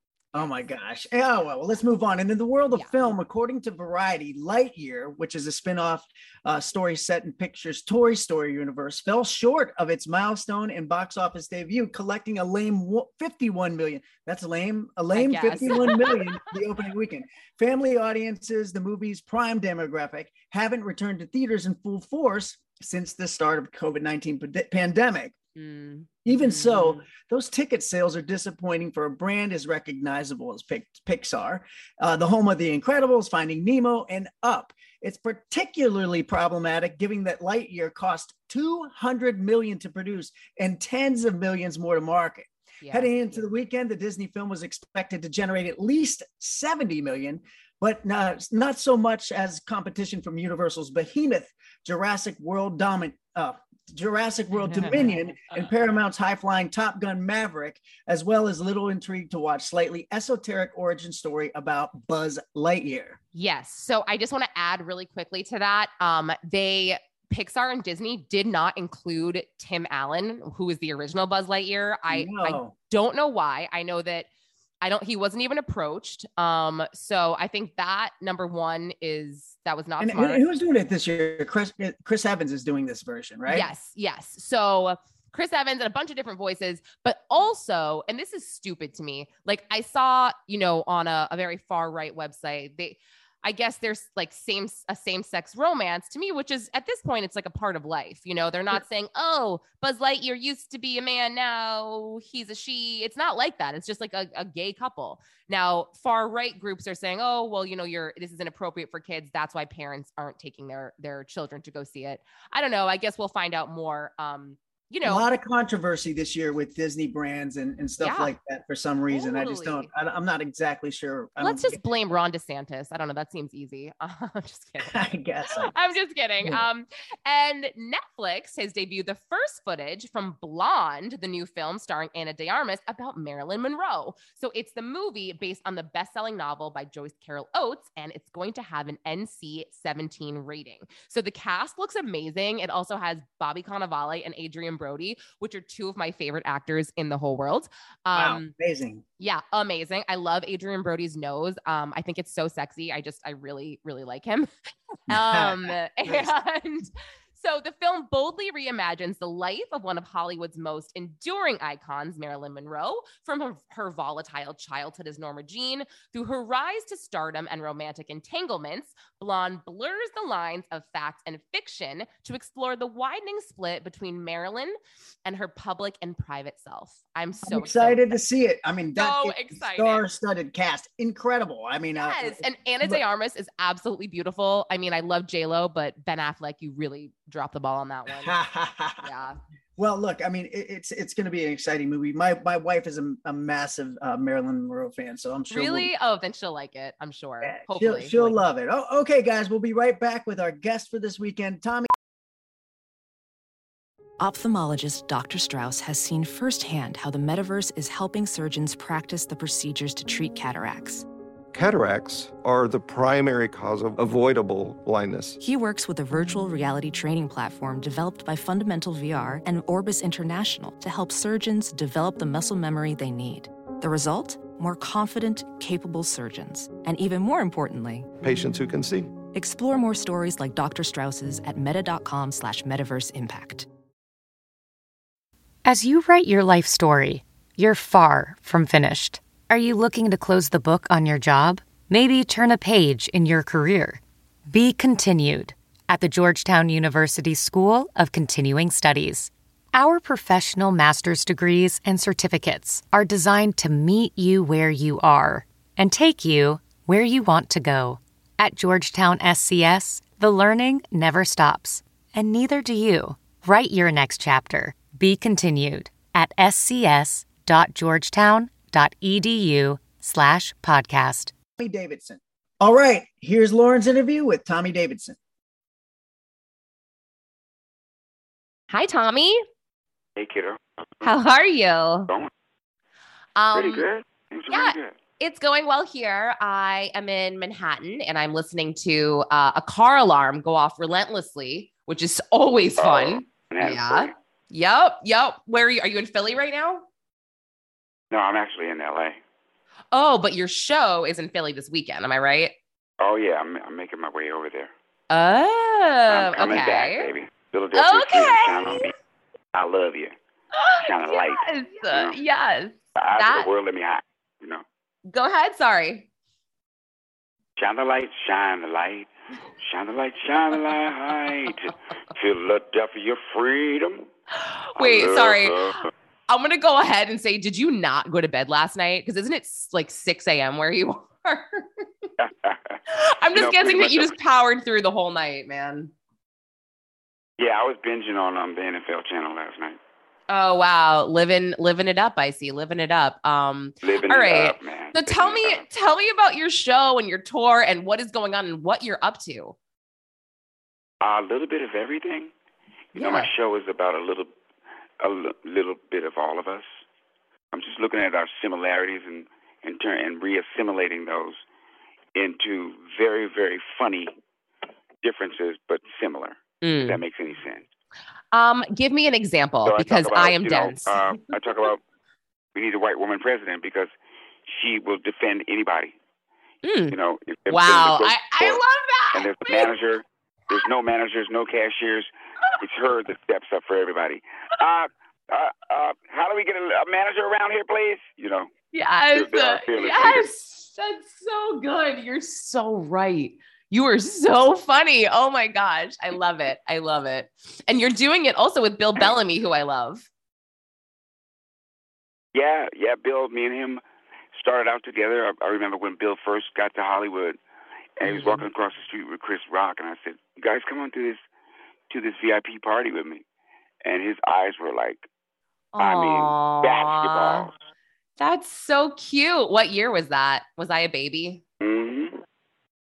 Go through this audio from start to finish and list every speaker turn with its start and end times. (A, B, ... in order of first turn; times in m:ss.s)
0:00.3-0:25.4 A
0:02.7-0:03.1 B
0:15.1-0:16.4 B
0:25.6-0:27.1 B
0:26.2-1:03.2 A
0:42.8-0:43.5 B
0:54.6-0:55.6 B
1:03.3-1:14.3 B
1:12.1-1:12.8 A
1:14.8-1:20.4 B
1:20.0-1:23.7 A
1:23.5-1:55.2 B
1:55.0-2:01.8 A
1:58.0-1:58.3 B
1:59.1-1:59.9 B
2:01.4-2:28.5 B
2:04.8-2:05.7 A
2:28.1-2:29.0 A
2:29.2-2:34.5 B
2:35.1-2:58.2 B
2:35.1-2:36.3 A
2:57.4-3:03.0 A
2:59.0-3:00.0 B
3:02.0-3:08.4 B
3:08.1-3:09.1 A
3:09.0-3:09.4 B
3:09.8-3:15.9 A
3:15.5-3:18.4 B
3:17.4-3:21.9 A
3:24.2-3:31.1 C
3:31.5-3:35.4 D
3:35.4-3:48.1 C
3:48.2-3:49.1 D
3:49.2-3:53.7 C
3:55.6-4:31.3 E
4:31.6-4:35.2 A
4:38.7-4:39.4 B
4:40.2-4:41.1 F
4:41.0-4:42.1 B
4:43.4-4:43.8 B
4:43.5-4:45.0 F
4:44.5-4:56.8 B
4:52.8-4:54.1 F
4:58.1-4:59.2 F
4:59.9-5:02.6 B
5:03.0-5:04.7 F
5:05.1-5:07.1 B
5:06.1-5:08.9 F
5:07.7-5:08.9 B
5:09.5-5:10.1 F
5:10.6-5:13.5 B
5:10.8-5:12.2 F
5:13.0-5:14.6 F
5:15.1-5:16.1 B
5:17.6-5:24.1 F
5:21.3-5:21.5 B
5:24.3-5:32.1 B
5:24.8-5:25.8 F
5:32.2-5:32.8 F
5:32.9-5:35.9 B
5:33.3-5:34.2 F
5:37.4-5:39.8 F
5:40.3-5:49.6 B
5:43.8-5:45.6 F
5:51.0-5:52.3 F
5:53.0-5:53.3 B
5:53.0-5:54.3 F
5:55.0-5:56.7 F
5:57.5-6:01.4 F
6:02.2-6:04.1 F
6:05.0-6:07.7 F
6:06.6-6:07.0 B
6:08.3-6:11.2 B
6:09.6-6:11.8 F
6:12.6-6:13.9 F
6:14.5-6:16.0 F
6:16.6-6:17.0 B
6:16.9-6:18.6 F
6:17.5-6:19.7 B
6:19.1-6:28.5 F
6:28.7-6:40.1 B
6:29.1-6:30.3 F
6:42.3-6:43.8 F
6:44.3-6:47.4 F
6:48.0-6:51.2 F
6:48.0-6:48.4 B
6:51.9-6:53.2 F
6:53.8-6:55.0 F
6:55.7-6:57.5 B
6:55.8-6:57.5 F
6:58.2-7:01.4 B
7:01.6-7:02.2 F